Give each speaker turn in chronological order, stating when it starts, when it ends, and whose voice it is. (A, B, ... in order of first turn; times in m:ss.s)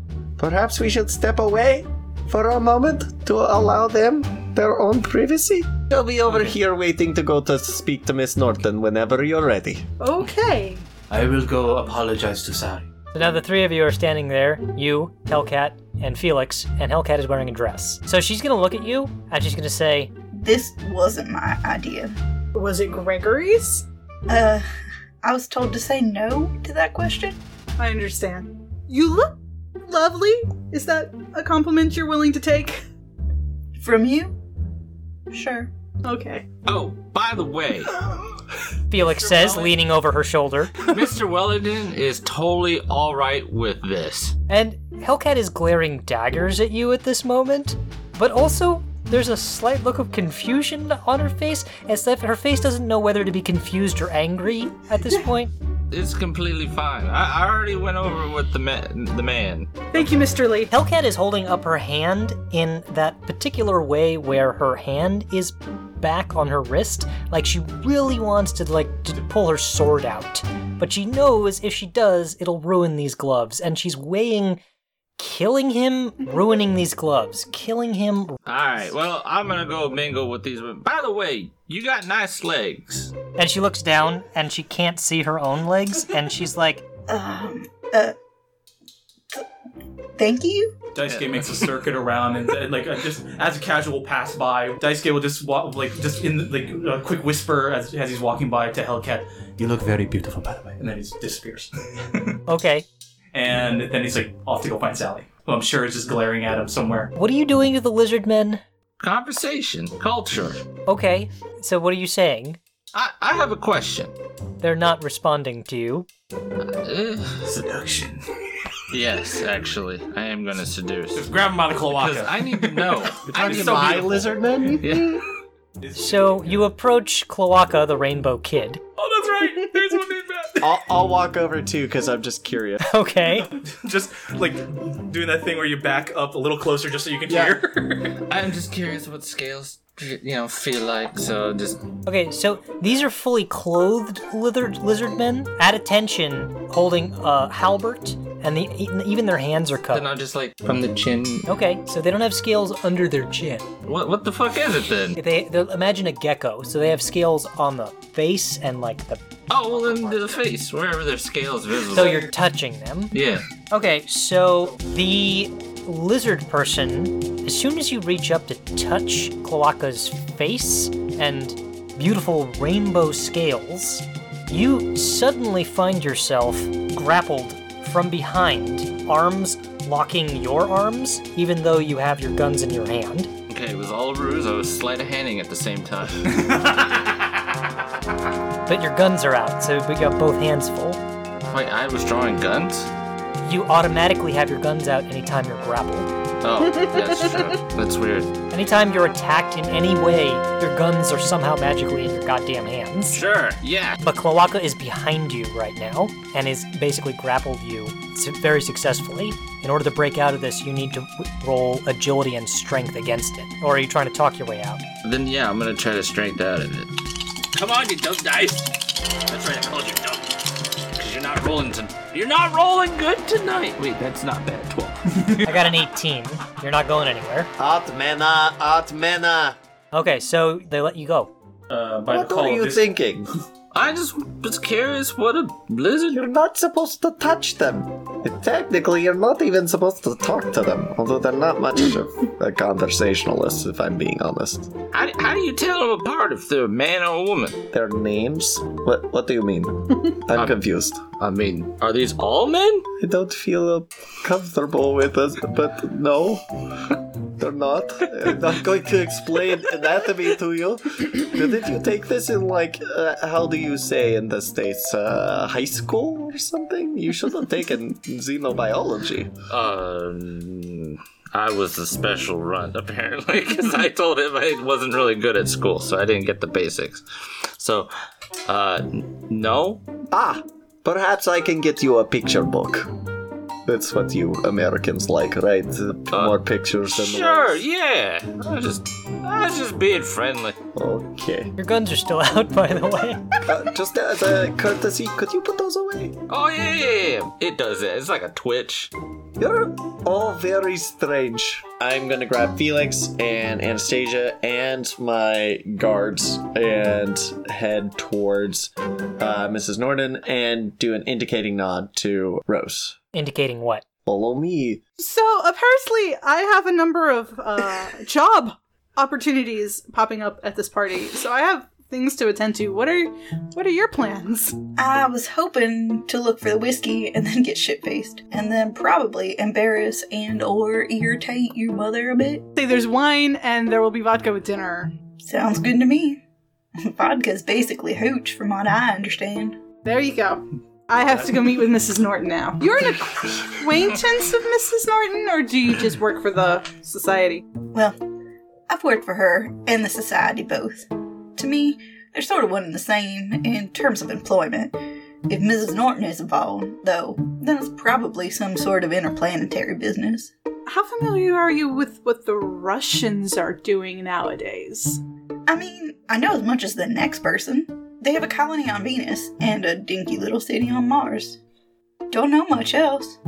0:00.4-0:09.9 A
0:06.3-0:06.6 B
0:10.0-0:10.9 C
0:11.1-0:12.9 B
0:13.1-0:20.1 D
0:20.3-0:22.2 E
0:22.5-0:23.8 C
0:24.3-0:24.7 E
0:25.2-0:27.4 E
0:27.8-0:32.8 C
0:33.8-0:34.4 E
0:35.3-0:35.7 E
0:36.0-0:36.5 C
0:36.7-0:38.0 F
0:38.9-0:40.8 D
0:39.4-0:39.7 B
0:40.8-0:44.4 F
0:44.5-0:55.5 D
0:55.9-0:59.9 F
0:59.9-1:00.7 C
1:00.7-1:14.6 D
1:15.2-1:18.4 D
1:18.5-1:23.1 F
1:23.4-1:26.8 D
1:27.1-1:28.2 E
1:30.2-1:30.8 E
1:31.0-1:42.4 B
1:31.1-1:31.6 F
1:42.5-1:42.8 D
1:43.3-1:47.1 B
1:47.2-1:48.6 D
1:49.0-1:50.6 F
1:50.9-1:52.6 D
1:52.9-1:54.1 F
1:54.6-1:56.1 D
1:56.6-1:58.2 F
1:58.9-2:05.3 F
2:01.1-2:04.0 B
2:03.3-2:04.9 A
2:05.8-2:06.5 B
2:06.0-2:08.8 D
2:09.0-2:10.7 B
2:10.6-2:12.9 A
2:12.8-2:13.6 D
2:13.4-2:18.2 B
2:17.3-2:17.6 A
2:18.1-2:21.9 F
2:22.0-2:30.1 D
2:29.9-2:31.5 F
2:31.5-2:33.7 D
2:33.8-2:35.2 F
2:35.2-2:40.4 D
2:39.5-2:42.3 F
2:41.9-2:43.1 D
2:43.1-2:43.5 F
2:43.7-3:03.3 D
3:03.5-3:07.3 F
3:08.7-3:11.0 D
3:11.5-3:12.9 F
3:13.4-3:16.1 D
3:16.4-3:18.3 F
3:18.5-3:23.2 D
3:23.1-3:24.0 F
3:24.0-3:34.8 D
3:35.0-3:45.1 F
3:45.1-3:45.6 B
3:45.4-3:47.5 D
3:47.6-3:49.6 A
3:49.9-3:51.3 D
3:51.7-3:52.9 B
3:52.1-3:53.3 A
3:53.7-3:56.2 F
3:56.1-4:04.8 A
4:04.9-4:07.6 F
4:07.7-4:11.0 A
4:11.2-4:12.9 F
4:13.0-4:29.3 A
4:29.5-4:37.0 F
4:37.6-4:37.9 F
4:38.5-4:39.9 F
4:40.1-4:42.9 A
4:43.6-4:47.6 A
4:46.9-4:50.6 F
4:50.7-4:51.5 A
4:51.6-4:53.5 D
4:53.4-4:56.2 A
4:56.3-4:58.9 F
4:59.4-5:13.0 A
5:13.1-5:13.8 D
5:14.1-5:14.8 A
5:15.0-5:24.6 C
5:24.8-5:32.5 E
5:32.6-5:34.9 C
5:35.2-5:36.2 E
5:36.8-5:39.6 E
5:39.8-5:47.5 C
5:47.7-5:48.0 E
5:48.7-5:54.8 E
5:55.3-6:00.3 E
6:00.7-6:05.0 C
6:05.5-6:11.4 E
6:12.1-6:13.2 E